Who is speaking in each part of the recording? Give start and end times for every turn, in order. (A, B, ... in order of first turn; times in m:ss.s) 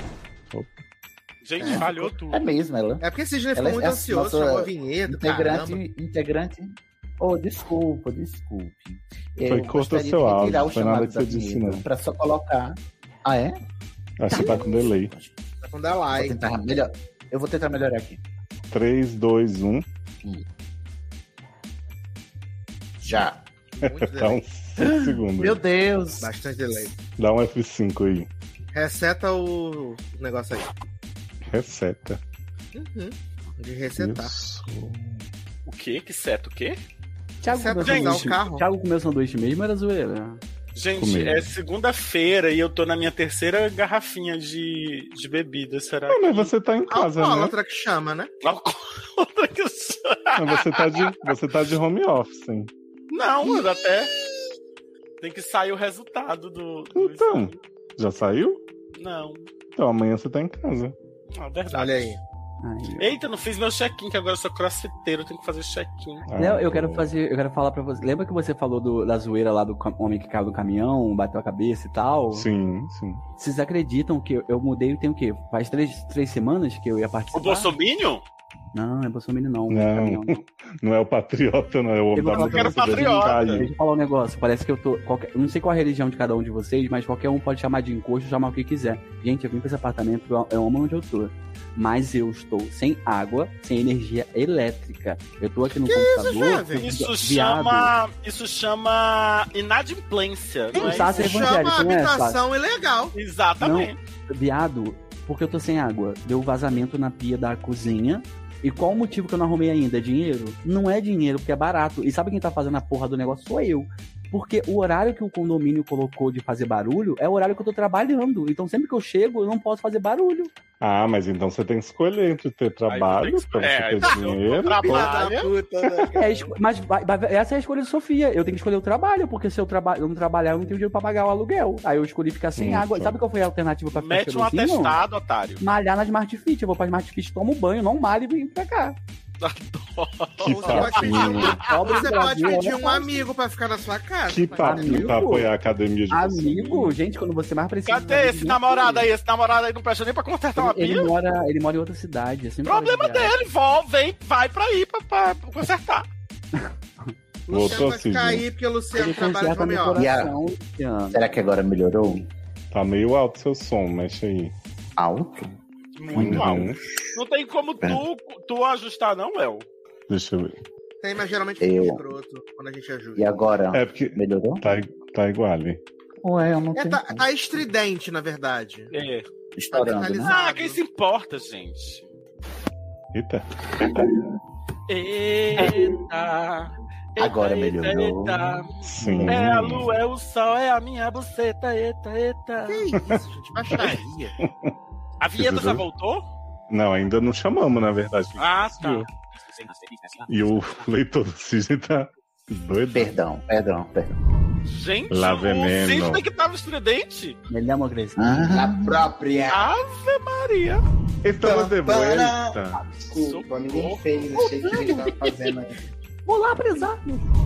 0:01.4-0:02.4 A
0:01.6-0:01.9 B
0:01.6-0:13.6 C
0:03.0-0:05.8 B
0:09.4-0:11.8 D
0:14.2-0:15.1 D
0:14.3-0:15.4 C
0:15.6-0:16.4 B
0:16.1-0:18.2 C
0:18.7-0:19.8 D
0:23.0-0:23.4 C
0:23.8-0:24.4 B
0:23.8-0:25.6 D
0:24.8-0:26.3 C
0:26.2-0:27.0 B
0:27.2-0:28.3 D
0:28.7-0:30.7 B
0:31.5-0:32.2 D
0:32.7-0:34.3 B
0:34.0-0:35.2 D
0:35.6-0:36.8 A
0:37.4-0:40.4 E
0:37.5-0:38.6 B
0:37.8-0:38.3 A
0:40.8-0:46.5 A
0:41.0-0:41.5 D
0:46.1-0:47.5 D
0:46.9-0:48.3 B
0:48.4-0:51.2 A
0:50.4-0:52.7 D
0:53.1-0:54.1 A
0:55.2-0:57.6 A
0:56.9-0:58.6 D
0:58.9-0:59.4 A
0:59.8-1:00.9 D
1:01.3-1:02.2 A
1:01.7-1:02.2 B
1:02.6-1:03.2 E
1:03.0-1:06.2 A
1:06.3-1:07.1 D
1:06.4-1:12.5 E
1:12.3-1:13.2 D
1:13.4-1:17.7 E
1:17.3-1:18.2 A
1:18.7-1:20.4 E
1:19.7-1:23.7 D
1:22.1-1:37.9 E
1:22.3-1:23.7 A
1:35.8-1:36.9 B
1:36.8-1:41.4 A
1:40.7-1:42.4 E
1:40.7-1:43.2 B
1:43.1-1:44.0 A
1:43.6-2:00.5 E
2:00.8-2:05.1 D
2:02.9-2:05.5 A
2:04.0-2:06.5 B
2:05.8-2:06.1 D
2:06.2-2:15.0 E
2:12.6-2:13.2 D
2:13.9-2:15.6 A
2:15.6-2:19.0 E
2:19.4-2:22.0 A
2:20.4-2:25.2 B
2:20.4-2:21.7 D
2:21.4-2:23.3 E
2:24.2-2:26.9 D
2:24.6-2:25.5 E
2:26.1-2:29.1 E
2:27.8-2:31.1 A
2:30.6-2:33.3 E
2:32.6-2:36.0 A
2:37.5-2:40.1 B
2:37.5-2:38.4 D
2:38.9-2:41.3 E
2:39.9-2:40.3 C
2:41.1-2:42.3 C
2:42.7-2:44.5 D
2:45.0-2:45.5 C
2:46.0-2:49.7 A
2:46.1-2:46.8 D
2:50.1-2:50.6 D
2:51.0-2:53.3 B
2:51.6-2:52.0 C
2:53.1-2:54.6 C
2:53.7-2:55.8 D
2:56.2-2:57.3 C
2:56.7-2:58.9 B
2:58.9-2:59.3 A
2:59.5-3:00.3 C
2:59.7-3:00.8 B
3:00.2-3:02.1 A
3:03.1-3:04.2 D
3:04.9-3:12.9 A
3:07.2-3:09.4 C
3:08.8-3:09.9 D
3:12.7-3:14.4 B
3:13.7-3:14.7 D
3:15.2-3:16.2 A
3:15.3-3:15.9 D
3:16.7-3:19.1 D
3:18.4-3:19.1 A
3:19.6-3:20.1 A
3:20.3-3:23.1 D
3:22.9-3:24.1 C
3:24.6-3:27.4 A
3:25.1-3:26.2 D
3:27.5-3:28.5 E
3:28.2-3:29.0 C
3:28.4-3:29.7 F
3:29.5-3:30.8 A
3:31.2-3:32.9 D
3:31.4-3:35.8 F
3:33.1-3:34.0 A
3:34.3-3:35.3 E
3:36.2-3:37.2 E